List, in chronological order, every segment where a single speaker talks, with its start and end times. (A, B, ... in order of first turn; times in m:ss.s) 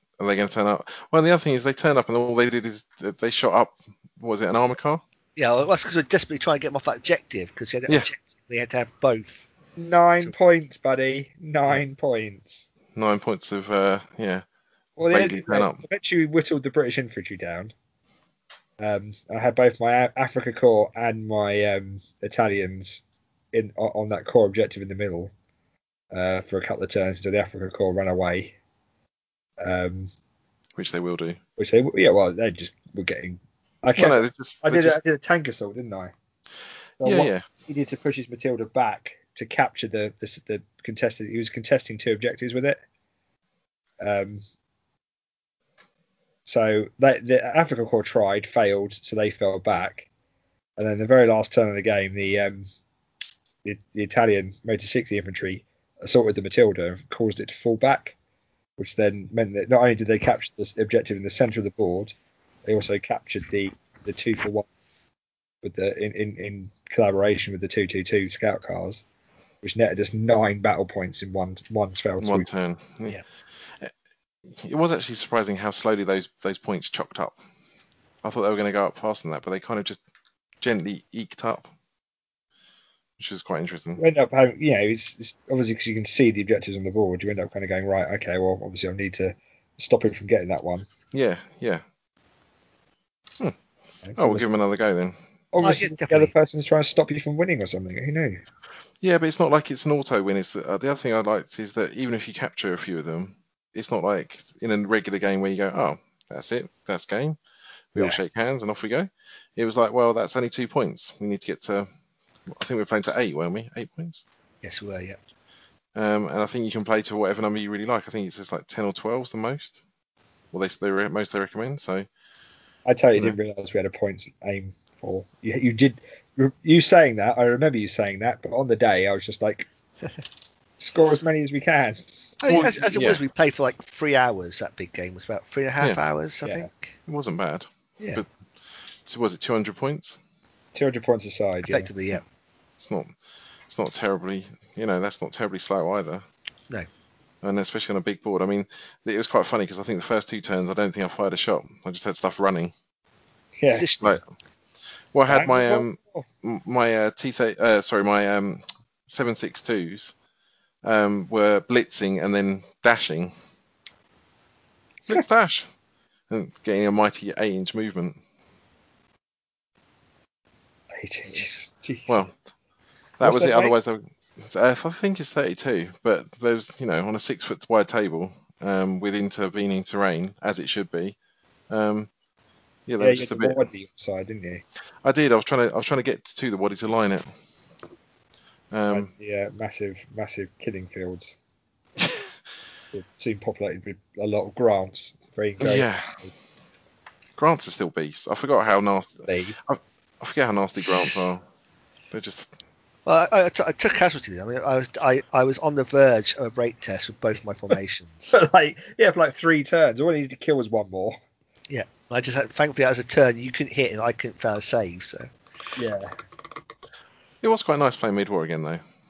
0:00.2-0:05.0 A
0:05.4-0:09.5 B
0:09.8-0:12.7 C
0:13.0-0:14.4 A
0:15.0-0:17.7 C
0:15.1-0:15.8 A
0:18.8-0:23.0 C
0:23.5-0:25.3 C
0:26.1-0:28.6 C
0:29.6-0:30.1 C
0:30.8-0:31.4 A
0:31.6-0:36.1 C
0:34.0-0:35.0 A
0:37.0-0:42.8 C
0:37.0-0:37.4 A
0:44.0-0:44.4 C
0:46.5-0:50.1 C
0:50.8-0:52.7 C
0:53.6-0:58.2 C
0:58.8-1:02.2 C
1:02.7-1:04.7 C
1:05.6-1:09.0 C
1:09.6-1:12.5 C
1:12.2-1:13.2 A
1:14.5-1:17.4 A
1:18.2-1:20.0 A
1:20.6-1:21.7 A
1:23.2-1:24.0 A
1:24.0-1:30.9 C
1:31.1-1:31.8 A
1:34.0-1:34.5 C
1:34.2-1:35.2 A
1:35.5-1:38.4 C
1:35.6-1:36.3 B
1:39.0-1:47.4 A
1:47.9-1:51.9 A
1:52.5-1:54.2 A
1:54.6-1:55.2 B
1:56.0-1:59.8 A
2:00.5-2:02.1 A
2:02.9-2:09.7 C
2:10.8-2:12.0 C
2:12.4-2:16.9 B
2:12.5-2:13.2 A
2:16.4-2:16.7 C
2:17.1-2:18.3 A
2:19.0-2:20.2 A
2:20.7-2:21.9 C
2:21.7-2:22.2 B
2:22.8-2:23.1 A
2:23.7-2:26.2 A
2:27.4-2:32.7 A
2:33.6-2:33.9 C
2:33.7-2:34.2 B
2:35.1-2:40.1 A
2:35.3-2:36.3 C
2:40.8-2:43.3 A
2:45.1-2:45.7 A
2:46.3-2:48.2 A
2:51.0-2:52.2 C
2:52.1-2:52.3 A
2:53.2-3:01.2 A
2:53.2-2:53.7 C
3:01.7-3:02.1 A
3:02.9-3:03.7 A
3:03.0-3:04.6 C
3:05.0-3:07.3 A
3:08.7-3:09.1 A
3:08.9-3:11.4 C
3:12.9-3:16.3 C
3:15.6-3:16.2 A
3:17.4-3:21.4 A
3:19.3-3:19.6 C
3:22.1-3:22.6 A
3:23.1-3:28.3 B
3:28.3-3:31.2 C
3:31.7-3:35.3 B
3:35.8-3:36.2 C
3:37.4-3:38.8 A